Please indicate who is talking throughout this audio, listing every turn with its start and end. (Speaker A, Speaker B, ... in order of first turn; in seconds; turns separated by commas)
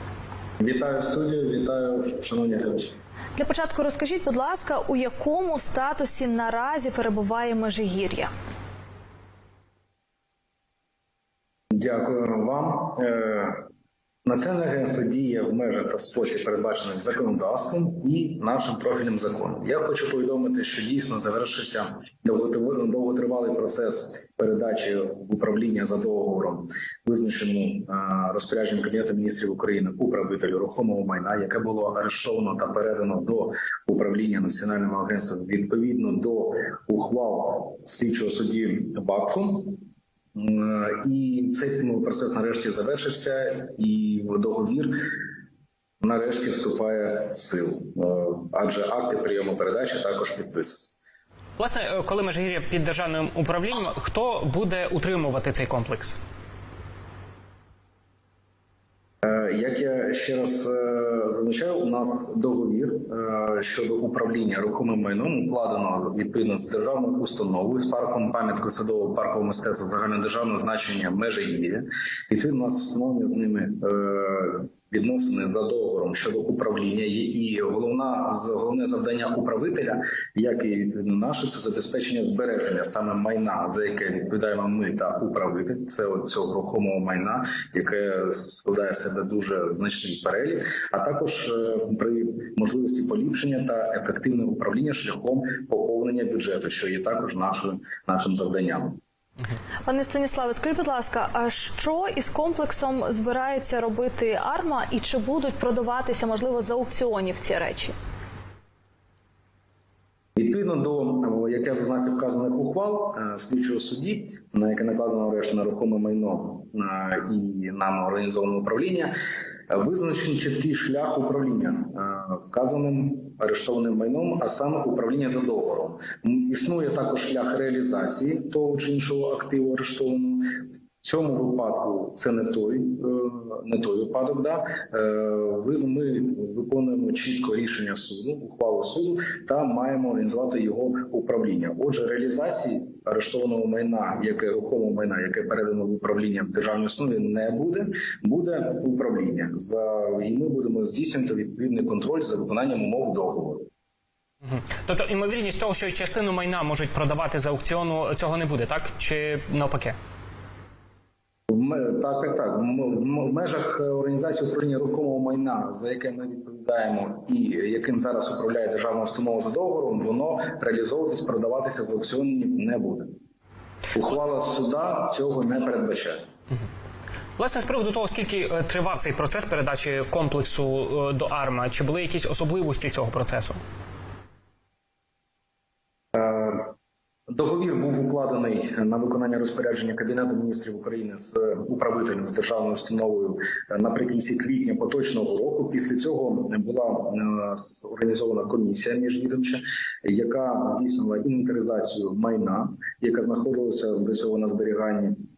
Speaker A: 0.6-3.0, Speaker B: 3.4-8.3, Speaker A: 11.7-13.7, Speaker A: 14.2-39.8, Speaker A: 40.4-45.1, Speaker A: 46.0-50.9, Speaker C: 51.6-56.2, Speaker A: 59.2-99.0, Speaker B: 99.9-108.0, Speaker A: 110.4-119.1, Speaker A: 119.7-153.7, Speaker C: 154.4-159.9, Speaker A: 161.5-173.2, Speaker A: 173.9-176.2, Speaker C: 177.4-183.6, Speaker A: 186.1-186.7, Speaker A: 187.3-205.2